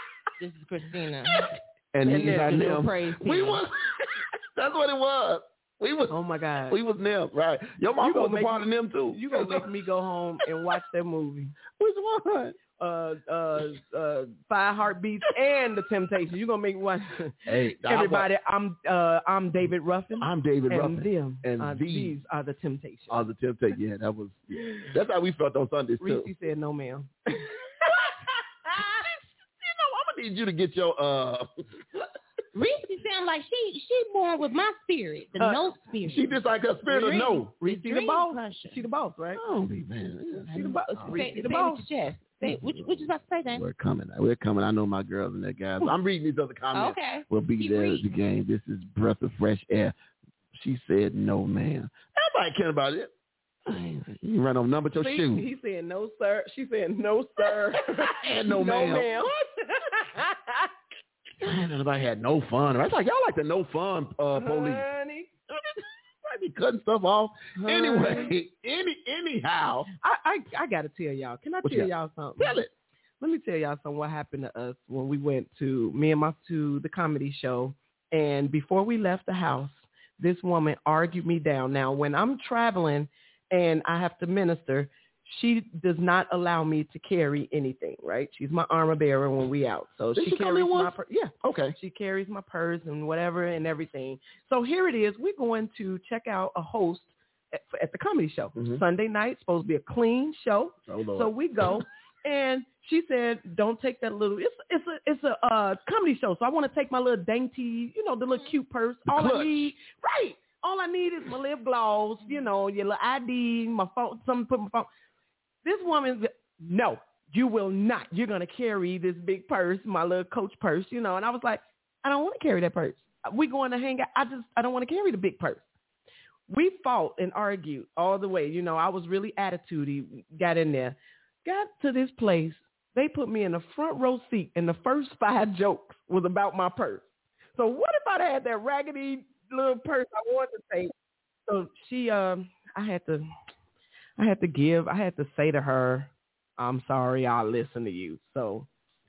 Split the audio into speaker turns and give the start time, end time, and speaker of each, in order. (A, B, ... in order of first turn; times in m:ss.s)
0:00.4-0:01.5 A
0:01.4-0:09.6 B
0:02.0-0:02.7 C
0:02.1-0:03.6 A
0:06.1-0:06.8 C
0:08.0-0:11.6 C
0:11.8-0:12.6 B
0:12.8-0:23.3 C
0:17.5-0:18.3 B
0:20.2-0:22.2 B
0:23.1-0:26.3 B
0:26.0-0:27.6 C
0:27.9-0:28.1 B
0:28.7-0:32.1 B
0:32.6-0:38.8 A
0:35.4-0:35.6 C
0:36.0-0:37.5 B
0:36.9-0:39.4 C
0:39.3-0:41.3 B
0:40.5-0:41.8 C
0:40.5-0:43.6 A
0:42.4-0:49.9 B
0:46.7-0:48.1 A
0:50.5-0:53.1 B
0:53.7-0:55.5 B
0:55.0-1:00.7 C
0:57.9-0:59.3 B
1:01.4-1:04.9 B
1:04.4-1:05.3 C
1:05.5-1:09.9 B
1:07.6-1:08.3 C
1:10.0-1:12.6 C
1:11.6-1:12.7 B
1:13.2-1:54.9 C
1:30.2-1:31.8 B
1:38.6-1:38.8 B
1:40.9-1:41.8 B
1:49.1-1:49.8 B
1:55.6-2:05.6 C
2:06.5-2:20.9 C
2:21.5-2:23.3 C
2:24.2-2:28.7 C